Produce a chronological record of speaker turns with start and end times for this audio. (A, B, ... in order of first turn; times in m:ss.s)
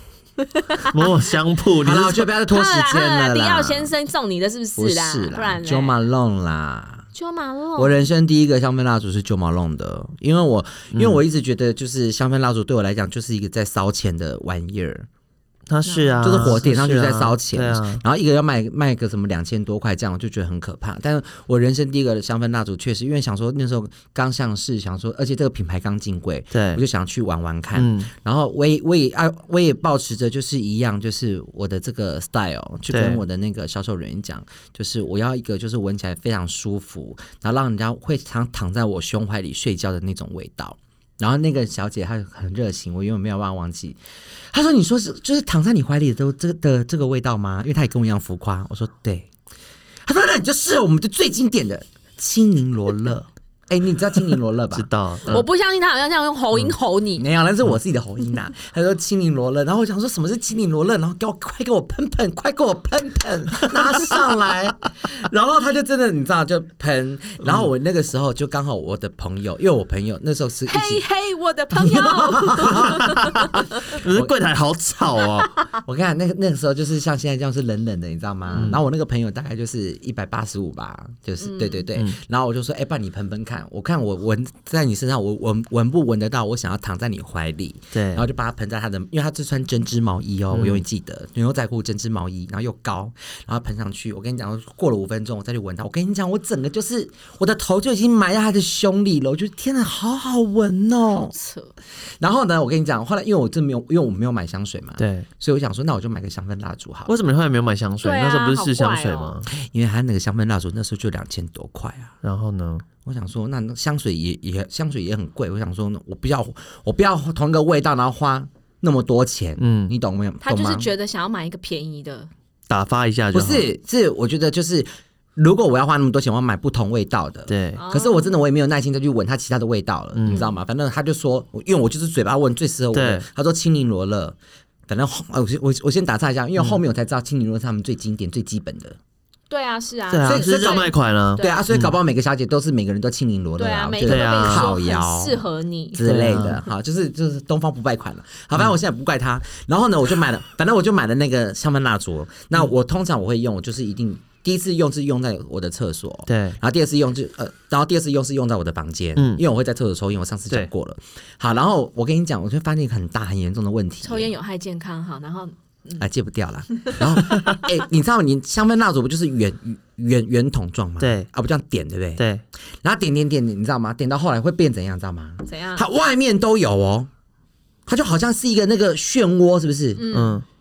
0:00.4-0:01.1 A
0:00.8-0:02.3 B
0:01.8-0:03.9 C
0:02.5-0:06.0 A
0:04.8-0:07.1 C
0:07.1-0:08.0 A
0:07.8-0:15.1 C
0:10.9-0:11.2 B
0:15.7-0:18.0 B
0:15.8-0:16.6 A
0:16.2-0:44.0 C
0:26.5-0:26.8 B
0:27.8-0:28.1 B
0:32.9-0:33.2 B
0:44.5-0:49.3 C
0:50.0-0:55.4 C
0:54.7-0:55.4 B
0:55.3-0:57.3 A
0:57.2-1:11.0 C
1:10.7-1:13.8 A
1:11.7-1:14.3 C
1:13.2-1:15.5 B
1:15.8-1:41.4 C
1:18.5-1:18.8 B
1:21.4-1:21.9 A
1:27.9-1:28.2 B
1:30.5-1:30.8 B
1:41.3-1:41.7 A
1:42.0-1:47.1 C
1:45.0-1:45.3 B
1:47.1-1:49.5 B
1:48.0-1:49.4 A
1:49.5-1:52.2 C
1:52.2-1:52.9 B
1:53.0-2:00.9 C
1:59.6-1:59.9 B
2:00.4-2:02.3 A
2:02.7-2:03.7 B
2:03.3-2:14.4 C
2:07.5-2:07.8 B
2:07.8-2:08.3 A
2:10.2-2:10.4 B
2:12.9-2:13.3 B
2:14.9-2:19.0 C
2:19.5-2:21.6 A
2:20.1-2:21.9 B
2:20.3-2:44.3 C
2:23.6-2:26.0 A
2:24.0-2:24.7 B
2:26.0-2:26.6 B
2:36.3-2:36.6 B
2:39.2-2:39.4 B
2:44.0-2:46.1 A
2:46.0-2:52.2 C
2:51.0-2:51.3 B
2:52.2-2:52.4 B
2:52.8-2:57.1 C
2:55.4-2:55.9 A
2:57.9-3:00.1 C
3:00.0-3:00.4 A
3:00.1-3:00.4 B